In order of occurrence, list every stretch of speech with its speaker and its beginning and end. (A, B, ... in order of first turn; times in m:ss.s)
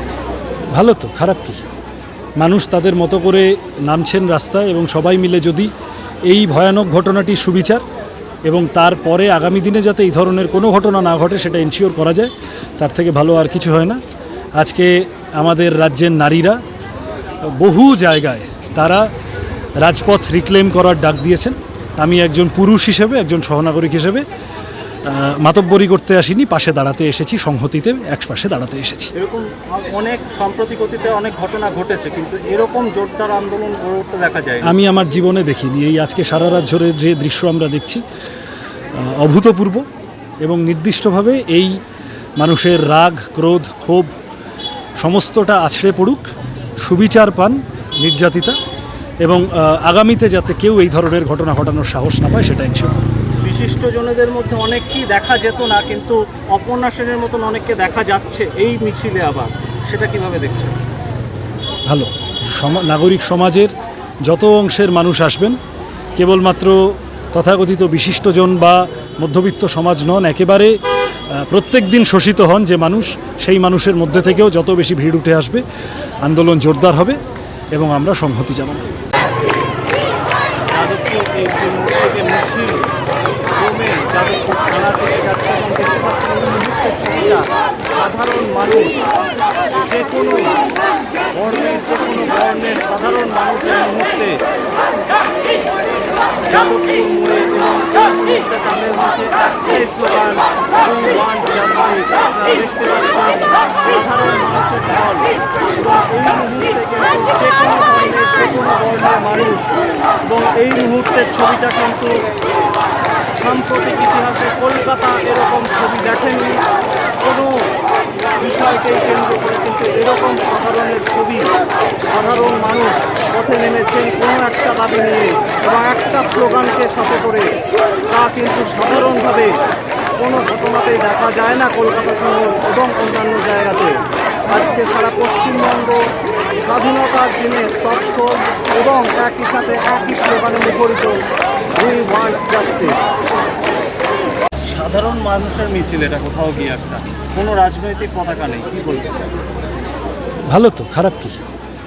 0:00.8-0:01.6 A
0:02.4-0:05.7 A
0:06.3-0:07.8 A
0:08.5-0:14.0 A
0:14.6-0:16.6 A
0:17.5-0:19.0 A
0:19.8-0:24.2 A
0:25.1-0:29.1 A
0:29.2-0:34.7 B
0:34.6-0:38.0 A
0:39.0-0:39.8 A
0:40.4-0:41.7 A
0:42.4-0:44.1 A
0:45.0-0:46.2 A
0:46.8-0:48.6 A
0:49.2-0:53.0 A
0:53.4-1:00.8 B
1:01.9-1:03.7 A
1:04.2-1:05.6 A
1:06.2-1:06.8 A
1:07.3-1:10.7 A
1:11.3-1:15.6 A
1:16.2-1:17.2 A
1:17.7-1:18.9 A
1:20.7-1:22.8 B
1:23.6-1:29.1 B
1:29.8-1:30.6 B
1:31.3-1:34.4 B
1:36.5-1:49.7 B
1:50.2-1:52.2 B
1:53.3-1:56.6 B
1:57.2-1:57.7 B
1:58.4-2:01.5 B
2:02.1-2:07.5 B
2:08.1-2:09.6 B
2:10.2-2:16.1 B
2:16.6-2:21.2 B
2:21.8-2:23.0 B
2:24.7-2:29.2 B
2:30.5-2:31.4 A